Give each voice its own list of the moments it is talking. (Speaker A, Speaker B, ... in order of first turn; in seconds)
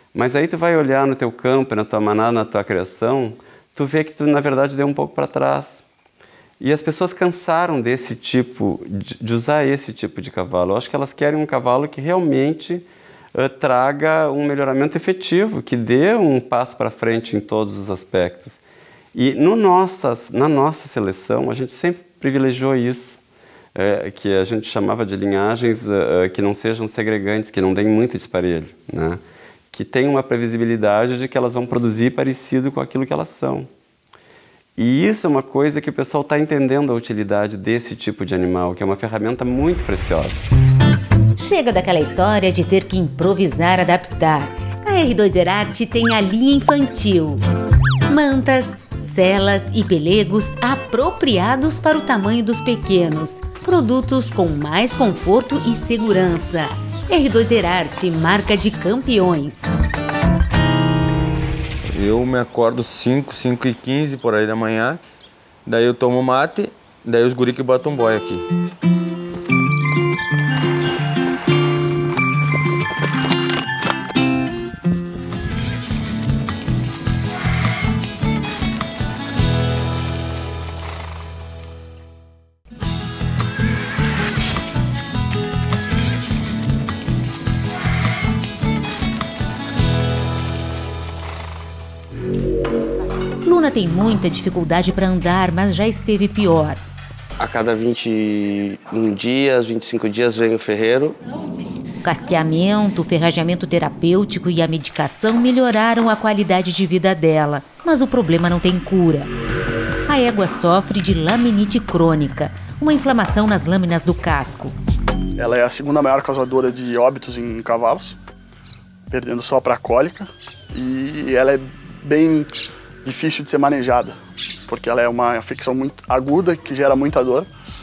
Speaker A: 0.1-5.8, 6.6-18.6, 19.1-23.2, 23.8-29.2, 29.7-33.7, 34.8-40.5
Speaker B: 41.4-47.4, 48.1-59.7, 93.5-96.8, 102.0-109.3, 110.1-114.7
Speaker C: 61.9-65.0, 65.7-68.4
Speaker D: 97.4-101.2
Speaker E: 115.4-118.2, 119.1-122.5, 123.0-124.2, 124.7-127.5